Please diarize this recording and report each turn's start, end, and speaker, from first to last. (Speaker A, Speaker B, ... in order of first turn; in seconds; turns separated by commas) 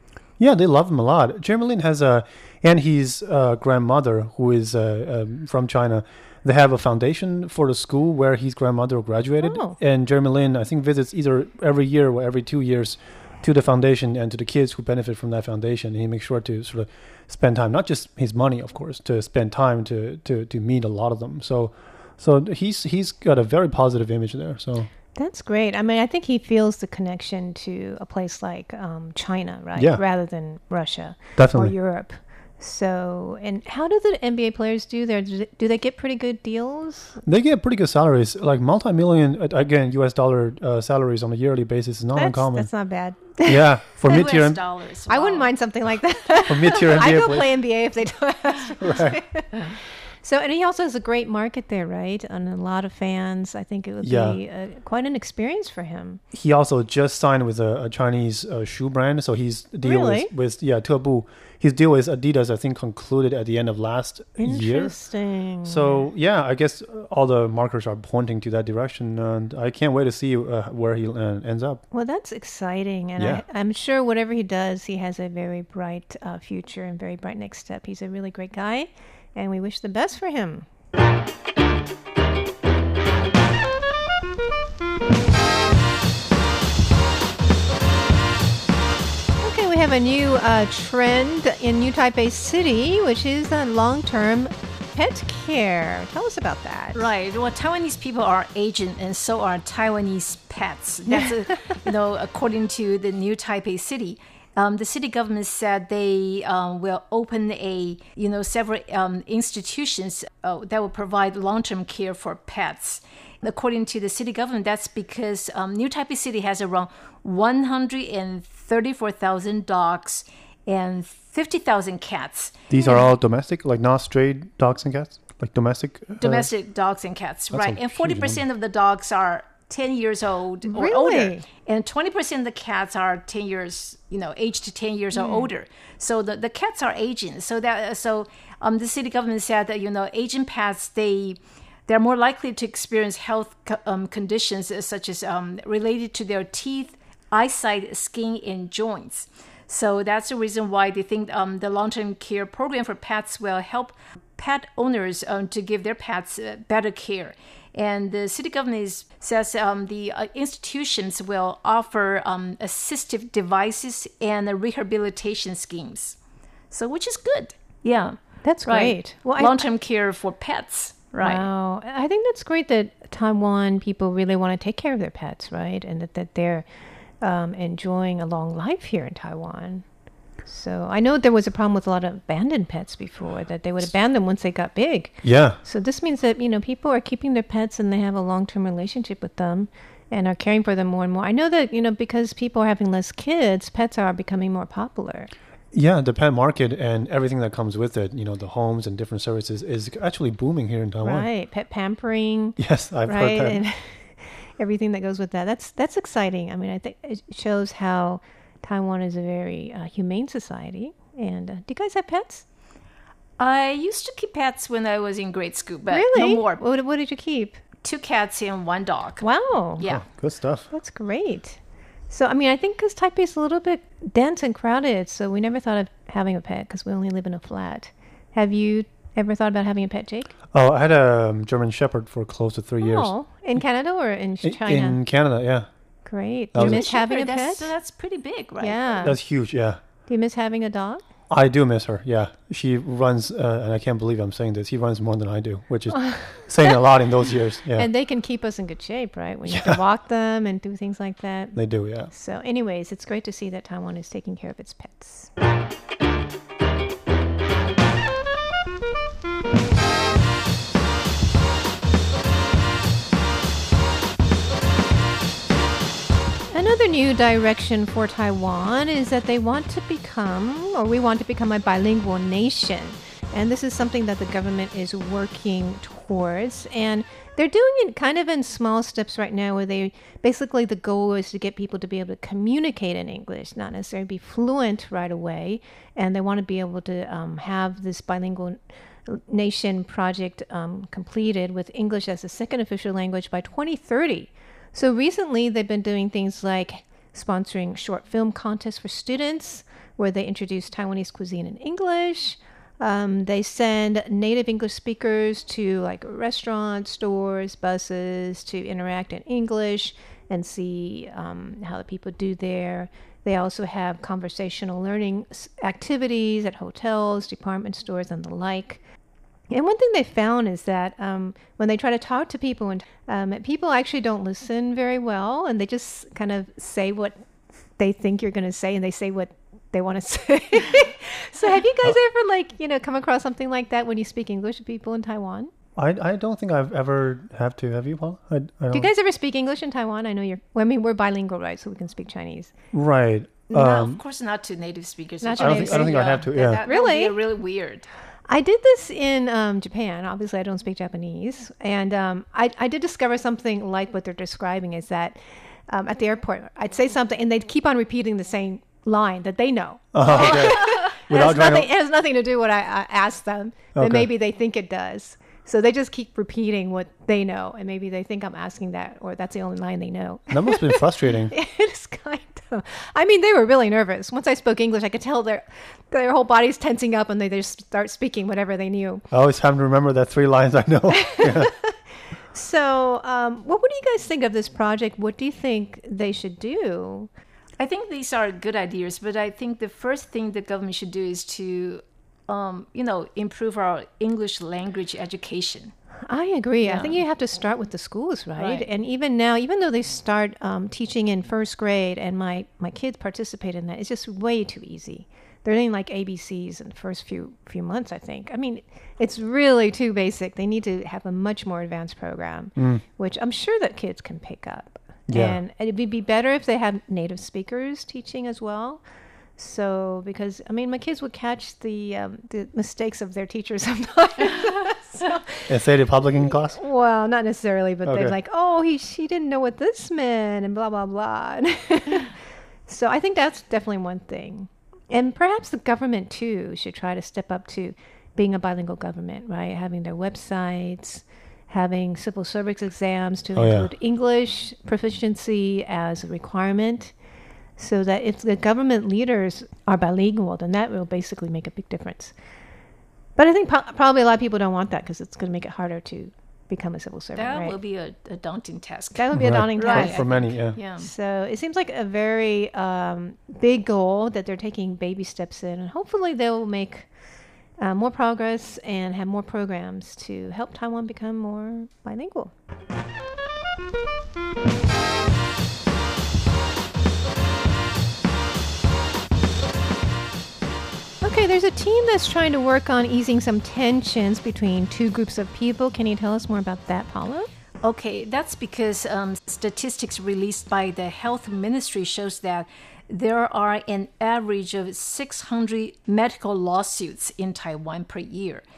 Speaker A: 0.4-24.9, Speaker B: 9.4-9.8, Speaker B: 25.1-37.2, Speaker A: 29.8-30.0, Speaker A: 31.4-31.7, Speaker A: 37.2-42.7, Speaker B: 42.1-44.2, Speaker A: 43.5-44.6, Speaker C: 44.1-45.5, Speaker B: 45.1-49.6, Speaker A: 46.5-47.5, Speaker A: 48.8-49.2, Speaker B: 50.1-56.2, Speaker A: 54.0-54.4, Speaker A: 56.3-65.0, Speaker B: 59.8-60.3, Speaker B: 64.4-66.1, Speaker A: 65.6-71.8, Speaker B: 71.9-80.7, Speaker A: 73.2-73.4, Speaker B: 89.4-97.1, Speaker C: 97.0-122.5, Speaker A: 122.7-126.5, Speaker C: 126.2-166.2, Speaker A: 127.5-128.4, Speaker B: 130.7-131.4, Speaker B: 135.2-135.5, Speaker C: 166.7-171.5, Speaker B: 168.4-169.7, Speaker B: 171.2-176.7, Speaker B: 177.2-179.8, Speaker B: 180.5-195.3, Speaker A: 185.2-185.6, Speaker A: 195.7-201.3, Speaker B: 201.0-212.4, Speaker A: 202.6-203.6, Speaker C: 213.4-216.6, Speaker B: 215.9-217.6, Speaker C: 217.8-219.3, Speaker B: 219.2-219.8, Speaker A: 219.8-220.7, Speaker B: 220.7-230.3, Speaker A: 230.5-233.1, Speaker B: 232.8-235.0, Speaker A: 234.4-235.7, Speaker B: 236.1-237.7, Speaker A: 236.5-236.8, Speaker C: 236.6-239.1, Speaker B: 238.6-239.2, Speaker A: 239.0-239.8, Speaker B: 240.1-241.0, Speaker A: 241.3-247.9, Speaker B: 245.9-246.8, Speaker B: 247.8-255.3, Speaker A: 249.5-249.8, Speaker A: 251.6-252.1, Speaker B: 266.5-318.8, Speaker B: 319.5-327.2, Speaker B: 327.8-335.5, Speaker A: 335.8-338.9, Speaker B: 338.7-342.5, Speaker A: 342.7-344.0, Speaker C: 343.5-347.9, Speaker B: 345.2-347.2, Speaker A: 345.4-346.6, Speaker B: 348.3-379.1, Speaker A: 359.9-361.7, Speaker A: 363.8-364.1, Speaker A: 370.3-371.3, Speaker A: 379.1-381.6, Speaker B: 381.1-381.7, Speaker B: 382.3-387.1, Speaker C: 387.6-395.7, Speaker B: 396.1-418.8, Speaker C: 396.6-397.0, Speaker C: 398.4-398.7, Speaker A: 412.6-412.8, Speaker A: 415.1-415.4, Speaker B: 419.4-425.4, Speaker C: 424.4-425.1, Speaker A: 425.5-426.6, Speaker B: 426.5-432.1, Speaker A: 427.9-428.1, Speaker B: 432.7-446.9, Speaker A: 443.4-443.7, Speaker B: 447.6-452.1, Speaker B: 453.2-457.6, Speaker C: 457.1-460.9, Speaker B: 458.9-466.9, Speaker A: 459.1-460.6, Speaker B: 467.6-472.3, Speaker B: 481.0-487.3, Speaker C: 487.6-498.4